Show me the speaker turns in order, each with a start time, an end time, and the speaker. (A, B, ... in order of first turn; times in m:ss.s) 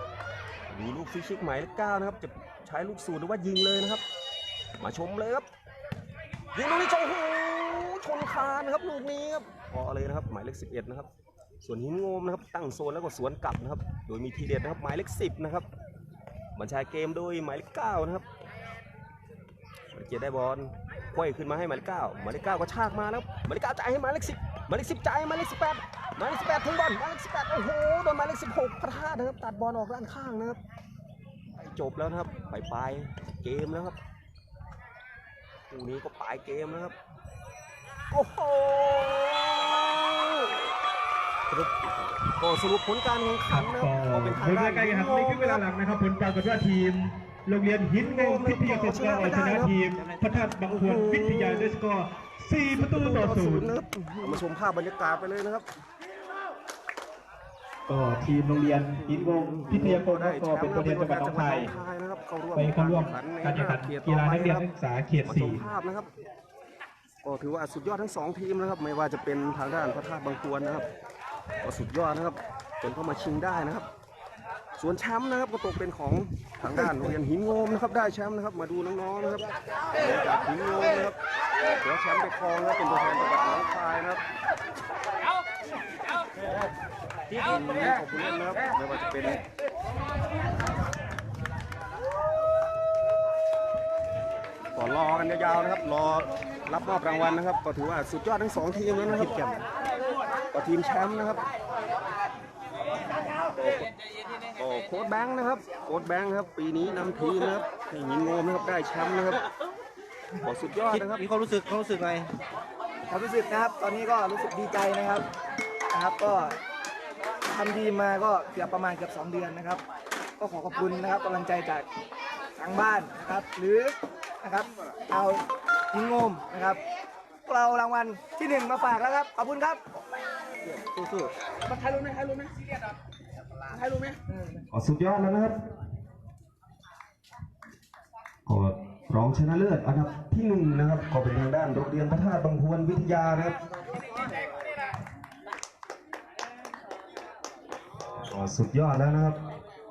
0:00.7-0:04.0 A
0:04.8-0:05.5 A
0:06.5-0:11.1 A
0:11.6-0:15.7 A
0:16.5-0:18.2 A
0:19.9-0:30.6 A
0:31.6-0:34.0 A
0:35.7-0:36.9 A
0:38.1-0:40.7 A
0:41.5-0:45.6 A
0:43.5-0:53.8 B
0:48.0-0:49.8 A
0:50.7-0:51.8 A
0:52.8-0:55.6 A
0:57.9-1:01.7 B
0:59.0-1:04.7 A
1:02.5-1:05.6 B
1:05.2-1:06.1 A
1:07.2-1:10.8 A
1:11.6-1:13.9 A
1:14.8-1:21.2 A
1:21.7-1:24.2 A
1:27.3-1:29.4 A
1:34.7-1:39.4 A
1:39.1-1:39.6 C
1:40.5-1:41.4 A
1:43.5-1:43.9 A
1:44.6-1:49.4 A
1:50.4-1:51.2 A
1:50.9-1:52.3 C
1:53.1-1:55.2 D
1:55.9-1:56.6 D
1:57.5-1:59.8 D
2:00.4-2:01.9 D
2:02.6-2:06.8 D
2:07.4-2:09.8 D
2:10.7-2:11.3 C
2:11.7-2:12.5 D
2:13.7-2:14.4 D
2:14.7-2:15.5 A
2:18.4-2:23.6 A
2:28.2-2:29.4 A